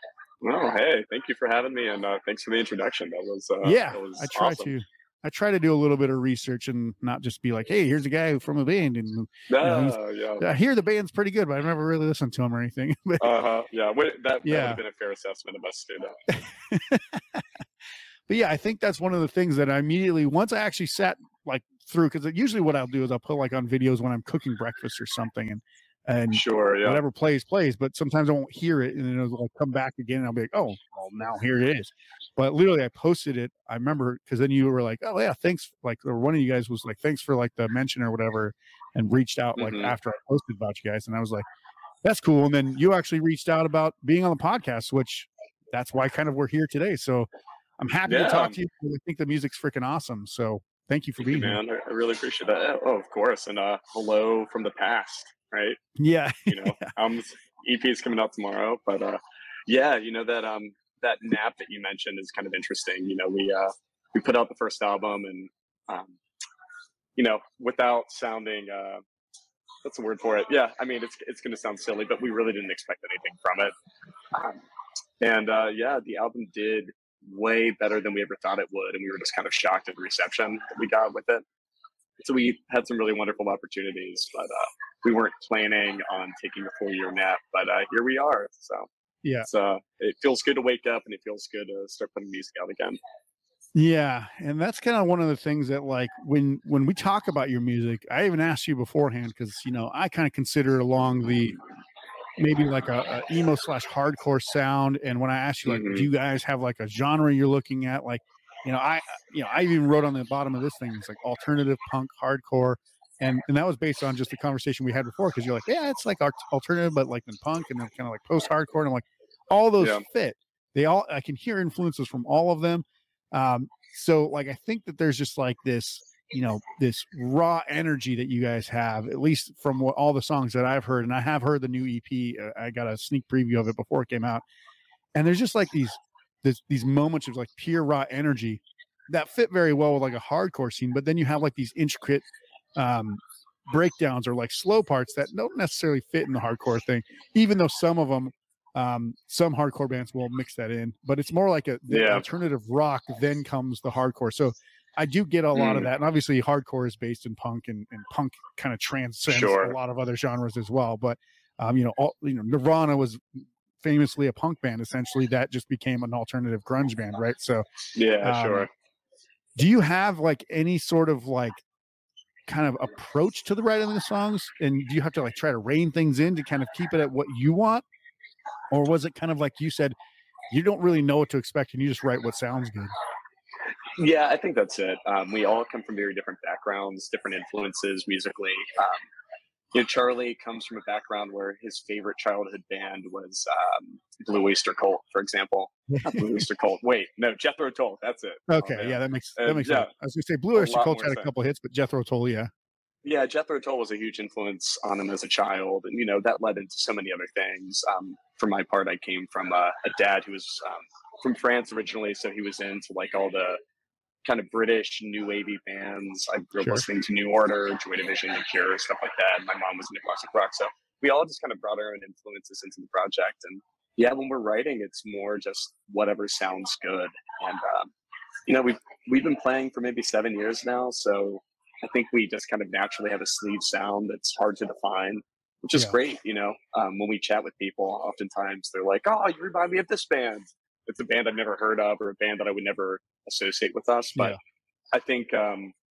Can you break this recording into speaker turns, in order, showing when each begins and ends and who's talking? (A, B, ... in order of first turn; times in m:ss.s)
0:00.4-0:04.7 A
0:03.6-0:13.3 B
0:09.5-0:10.4 A
0:13.2-0:16.2 A
0:14.4-0:14.8 B
0:16.7-0:17.4 B
0:18.3-0:41.4 B
0:26.3-0:27.0 A
0:39.6-0:39.9 A
0:42.0-0:47.3 B
0:47.8-0:51.6 B
0:48.0-0:48.6 A
0:51.2-0:55.8 A
0:56.0-0:56.9 B
0:56.5-1:06.2 A
1:07.2-1:09.0 A
1:09.8-1:13.7 A
1:14.3-1:14.6 A
1:15.2-1:21.4 A
1:22.2-1:28.9 A
1:29.4-1:33.0 A
1:33.7-1:41.6 B
1:42.4-2:14.4 B
1:45.7-1:46.1 A
2:15.1-2:22.2 B
2:22.8-2:43.2 B
2:31.9-2:32.2 A
2:35.5-2:35.9 A
2:39.3-2:39.8 A
2:43.8-2:47.6 B
2:47.9-2:48.7 A
2:48.2-2:48.7 B
2:49.6-2:51.6 B
2:52.5-2:57.8 B
2:58.7-2:59.9 B
3:00.5-3:02.9 B
3:04.0-3:09.0 A
3:09.7-3:19.9 A
3:18.5-3:22.5 B
3:20.5-3:21.3 A
3:23.0-3:33.6 A
3:34.2-3:47.9 A
3:48.5-4:04.4 A
4:04.9-4:05.7 A